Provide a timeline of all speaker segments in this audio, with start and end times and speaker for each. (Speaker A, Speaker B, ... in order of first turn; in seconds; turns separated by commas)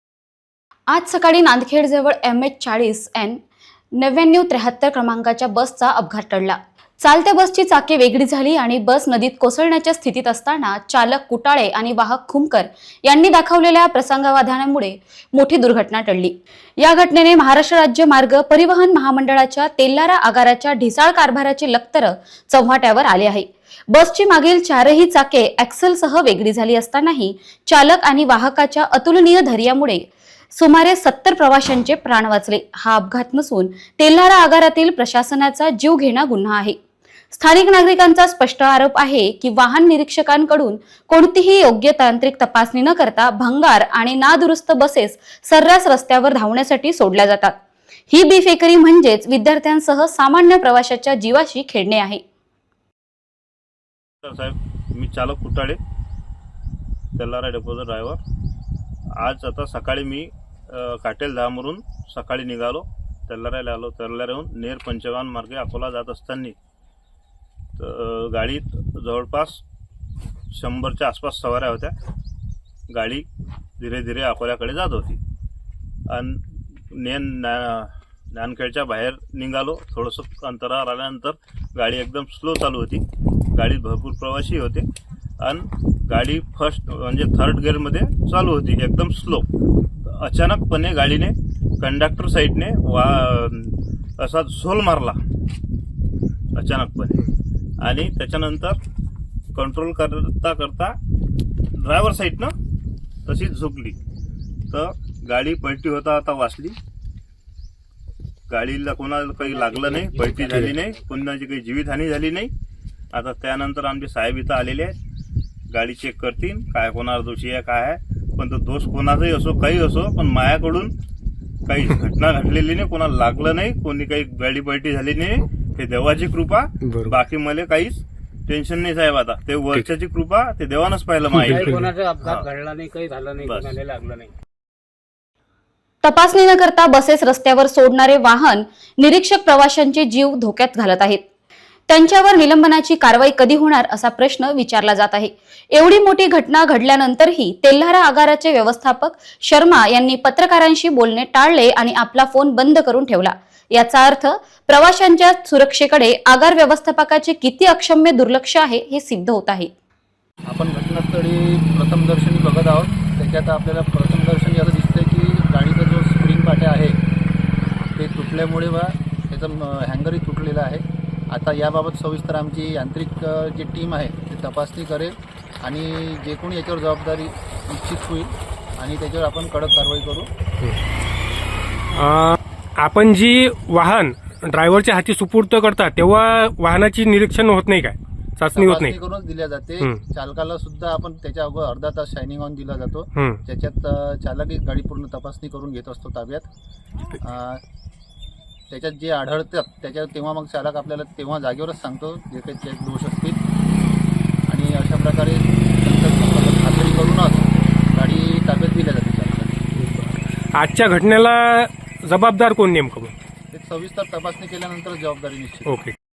Speaker A: 0.9-3.4, Speaker A: 4.0-36.8, Speaker A: 37.3-47.6, Speaker A: 48.1-52.2, Speaker B: 54.2-55.8, Speaker B: 57.2-58.2, Speaker B: 59.2-66.5, Speaker B: 67.8-69.6, Speaker B: 70.5-71.9, Speaker B: 72.9-73.3, Speaker B: 73.8-75.2, Speaker B: 76.1-84.9, Speaker B: 85.4-89.5, Speaker B: 90.0-95.2, Speaker B: 96.5-97.3, Speaker B: 97.8-98.8, Speaker B: 99.5-101.0, Speaker B: 101.7-102.5, Speaker B: 103.3-104.0, Speaker B: 104.7-106.8, Speaker B: 108.5-112.5, Speaker C: 109.5-111.0, Speaker B: 113.1-115.0, Speaker B: 115.7-121.0, Speaker B: 121.7-132.5, Speaker D: 126.8-127.2, Speaker D: 131.3-131.9, Speaker C: 131.4-134.3, Speaker B: 133.4-133.8, Speaker A: 136.0-141.2, Speaker A: 141.9-159.7, Speaker E: 160.5-167.0, Speaker E: 167.9-180.3, Speaker D: 181.9-189.0, Speaker E: 188.5-196.5, Speaker E: 197.2-197.6, Speaker E: 198.7-203.4, Speaker E: 204.5-209.6, Speaker D: 209.8-213.1, Speaker E: 213.5-215.8, Speaker D: 215.7-215.9